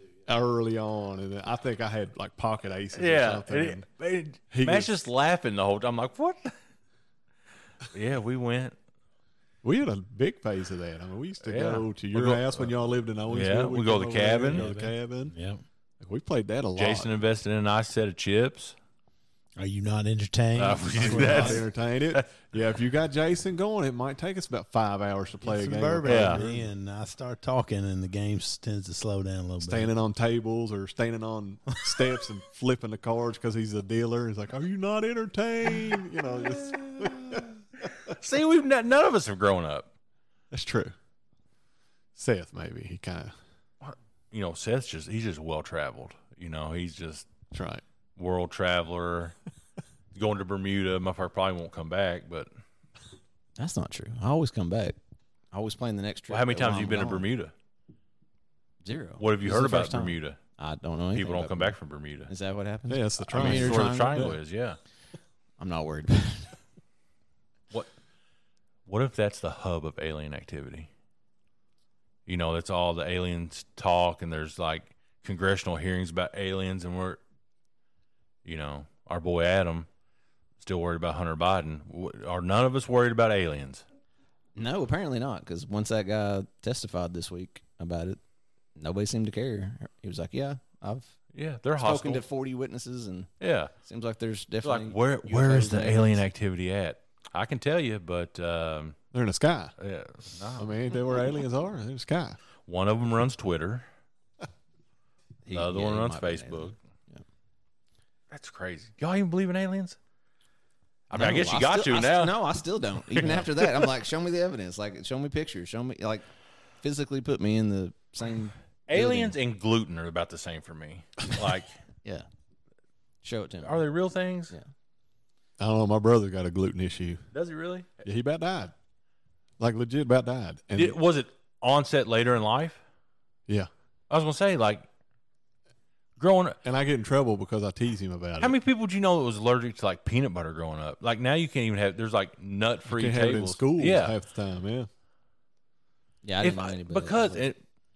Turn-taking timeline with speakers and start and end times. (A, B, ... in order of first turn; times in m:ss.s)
0:00.3-0:03.8 A
0:02.9-0:06.5 B
0:04.5-0:04.9 A
0:07.9-0:08.7 B
0:09.6-0:15.3 A
0:11.4-0:12.7 B
0:13.3-0:14.6 B
0:14.5-0:15.6 C
0:16.0-0:17.1 A
0:16.8-0:18.8 B
0:19.6-0:21.6 C
0:20.6-0:22.4 B
0:21.0-0:26.7 A
0:25.4-0:29.9 C
0:26.0-0:26.4 B
0:29.6-0:37.5 A
0:36.7-0:37.4 B
0:38.1-0:39.9 B
0:40.5-0:40.9 A
0:42.2-0:43.3 A
0:43.8-0:47.3 B
0:47.5-0:47.8 A
0:48.2-0:49.3 B
0:50.1-0:52.5 B
0:53.6-0:55.0 D
0:55.5-0:57.2 D
0:56.3-0:57.5 B
0:58.8-1:01.8 D
0:59.2-1:00.4 B
1:01.1-1:02.3 B
1:02.3-1:04.3 D
1:02.9-1:04.3 A
1:03.3-1:04.8 B
1:05.6-1:06.5 D
1:08.8-1:10.9 B
1:12.3-1:17.2 B
1:18.4-1:19.9 B
1:20.6-1:23.8 B
1:24.6-1:28.2 D
1:28.8-1:31.1 D
1:31.3-1:32.2 B
1:31.8-1:33.3 D
1:33.4-1:33.7 B
1:33.8-1:36.2 D
1:34.6-1:39.0 B
1:39.1-1:39.7 A
1:39.8-1:40.7 B
1:40.6-1:42.4 A
1:42.7-1:43.8 B
1:45.4-1:47.2 D
1:45.5-1:46.8 B
1:48.3-1:50.0 B
1:51.1-1:52.4 B
1:51.1-1:56.2 D
1:53.2-1:53.4 B
1:56.8-1:59.4 D
1:58.9-2:01.7 B
2:03.2-2:03.8 D
2:03.6-2:04.5 B
2:05.6-2:07.2 A
2:07.3-2:07.9 B
2:08.0-2:08.7 A
2:09.6-2:11.0 A
2:10.7-2:12.8 B
2:14.1-2:14.8 B
2:16.2-2:16.6 B
2:16.6-2:18.6 A
2:18.4-2:24.1 B
2:22.9-2:24.9 A
2:26.2-2:27.5 D
2:26.4-2:27.6 B